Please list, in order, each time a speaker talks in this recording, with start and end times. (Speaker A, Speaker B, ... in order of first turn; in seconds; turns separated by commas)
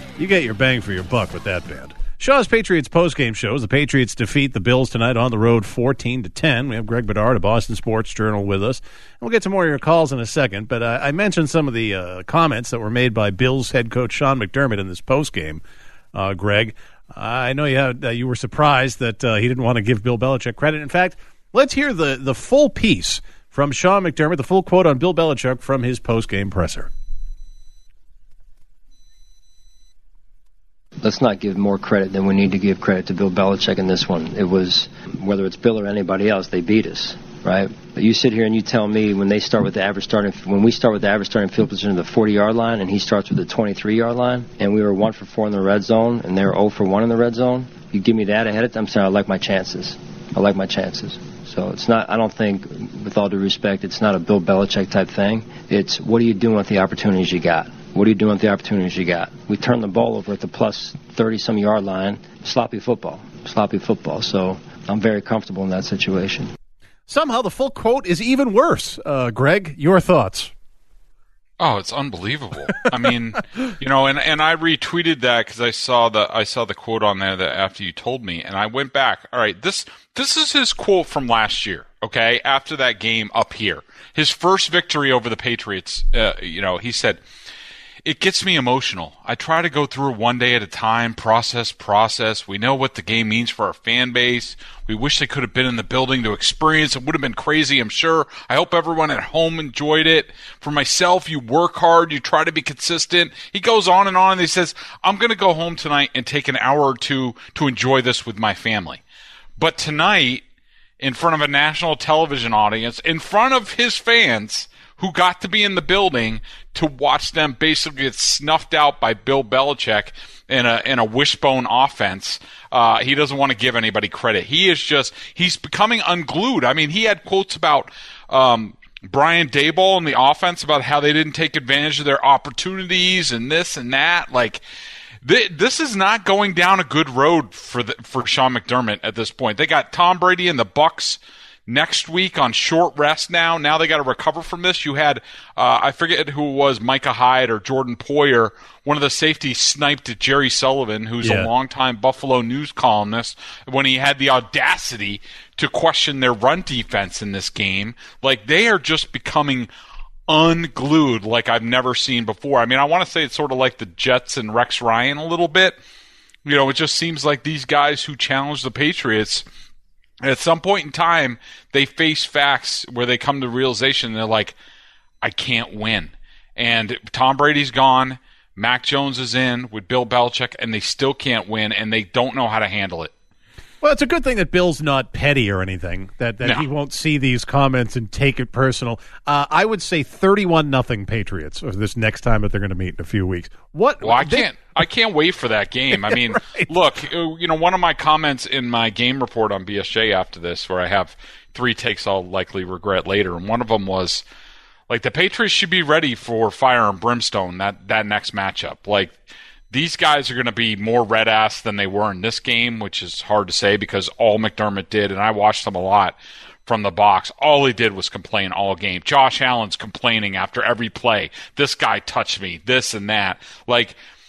Speaker A: 0.2-15.6, Speaker A: 16.1-26.9, Speaker B: 31.0-66.5, Speaker A: 67.1-70.5, Speaker C: 71.6-87.2, Speaker C: 88.0-109.0, Speaker C: 109.6-110.4, Speaker C: 111.0-134.6, Speaker C: 135.2-159.7, Speaker A: 151.2-151.5, Speaker C: 160.3-165.8, Speaker C: 166.4-169.4, Speaker C: 170.2-174.6, Speaker C: 175.2-183.1, Speaker A: 183.8-194.5, Speaker C: 194.0-204.2, Speaker A: 196.0-196.7, Speaker C: 204.9-209.2, Speaker C: 209.7-224.0